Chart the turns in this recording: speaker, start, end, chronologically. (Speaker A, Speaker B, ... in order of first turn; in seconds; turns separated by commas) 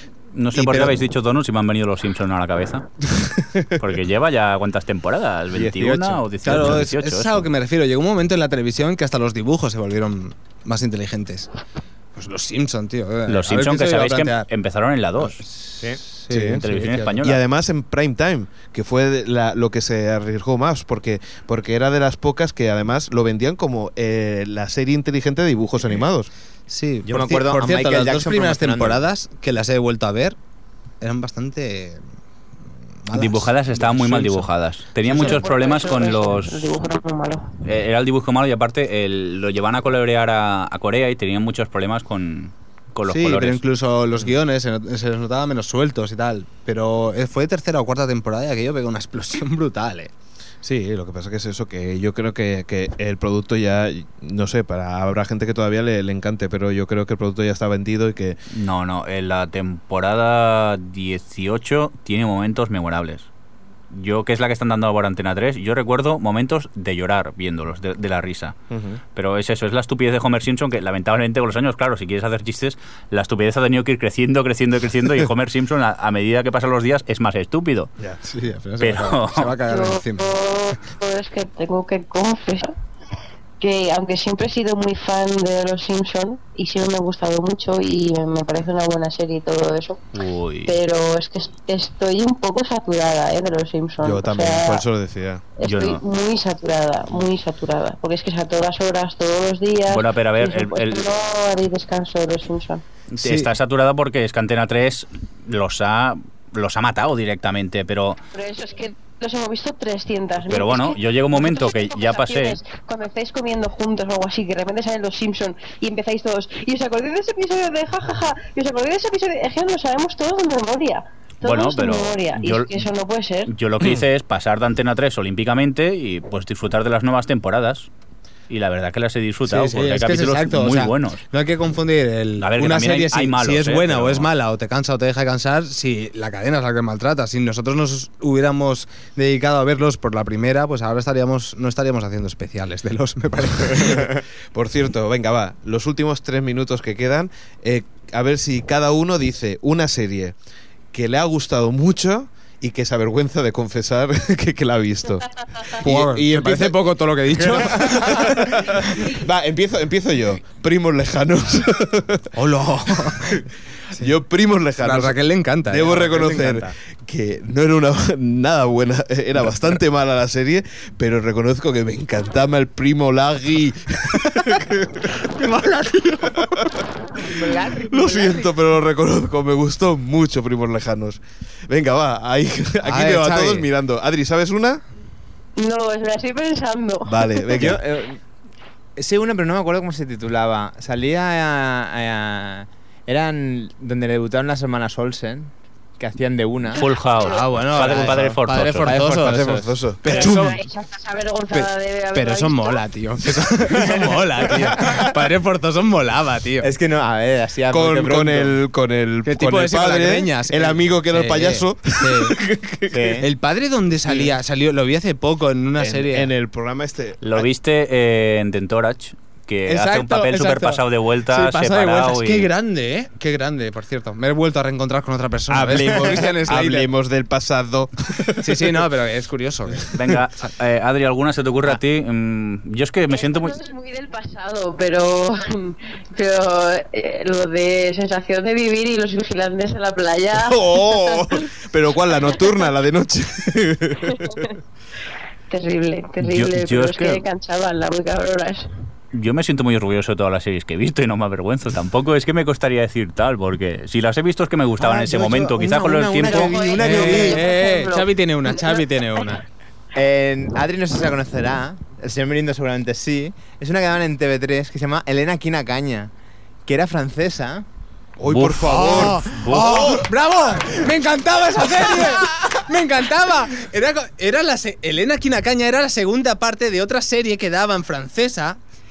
Speaker A: 0.3-2.9, Speaker B: 0.6-0.9, Speaker C: 3.1-3.8, Speaker A: 3.8-7.5, Speaker C: 5.5-6.2, Speaker B: 6.4-11.5, Speaker B: 12.2-14.5, Speaker A: 13.3-15.4, Speaker B: 15.2-17.2, Speaker C: 16.3-16.6, Speaker A: 16.6-17.4, Speaker C: 17.2-26.3, Speaker B: 26.7-30.4, Speaker D: 27.1-29.1, Speaker B: 31.0-32.0, Speaker B: 33.1-34.5, Speaker A: 33.1-36.7, Speaker B: 35.0-35.4, Speaker E: 35.2-37.6, Speaker A: 37.6-43.6, Speaker B: 43.1-50.1, Speaker C: 50.6-58.4, Speaker A: 58.5-63.3, Speaker A: 63.9-68.5, Speaker C: 68.7-69.0, Speaker A: 69.2-77.9, Speaker B: 78.2-80.4, Speaker A: 78.8-79.5, Speaker E: 79.7-82.7, Speaker E: 83.6-90.0, Speaker A: 90.2-90.8, Speaker E: 90.7-94.8, Speaker C: 94.0-95.4, Speaker E: 95.6-102.8, Speaker A: 95.6-96.0, Speaker A: 99.9-101.1, Speaker A: 103.1-108.2, Speaker B: 103.2-103.5, Speaker E: 108.3-123.5, Speaker A: 110.5-112.6, Speaker A: 121.4-122.9, Speaker A: 123.5-127.9, Speaker A: 128.5-131.2, Speaker B: 129.5-144.1, Speaker A: 132.4-134.3, Speaker C: 143.6-150.4, Speaker C: 150.9-162.3, Speaker B: 155.8-159.1, Speaker B: 162.3-164.1, Speaker C: 163.0-163.4, Speaker C: 163.9-175.4, Speaker B: 164.8-166.7, Speaker B: 175.3-176.6, Speaker C: 176.2-176.8, Speaker E: 177.1-178.5, Speaker C: 177.8-184.8, Speaker B: 182.8-183.7, Speaker E: 185.6-187.5, Speaker C: 187.1-187.8, Speaker D: 187.6-188.2, Speaker D: 189.0-196.9, Speaker A: 196.8-199.0, Speaker B: 197.2-200.6, Speaker D: 197.6-199.7, Speaker C: 199.1-200.4, Speaker E: 200.1-202.8, Speaker B: 201.5-206.7, Speaker D: 204.8-205.1, Speaker D: 206.6-208.6, Speaker C: 207.7-213.2, Speaker B: 209.3-212.4, Speaker D: 212.9-213.2, Speaker B: 213.2-216.3, Speaker C: 214.1-214.3, Speaker C: 215.8-217.5, Speaker A: 217.2-222.5, Speaker B: 219.7-226.9, Speaker D: 225.5-226.3, Speaker C: 225.5-228.7, Speaker B: 228.4-229.9, Speaker C: 229.8-230.2, Speaker A: 229.9-233.6, Speaker E: 233.1-241.4, Speaker C: 240.3-244.5, Speaker E: 244.1-244.5, Speaker E: 245.5-248.7, Speaker A: 246.2-247.2, Speaker A: 249.1-256.6, Speaker D: 254.8-257.4, Speaker E: 256.2-258.8, Speaker B: 256.8-259.4, Speaker D: 259.9-266.1, Speaker D: 266.6-267.6, Speaker C: 268.2-270.0, Speaker A: 268.3-270.0, Speaker B: 268.7-278.6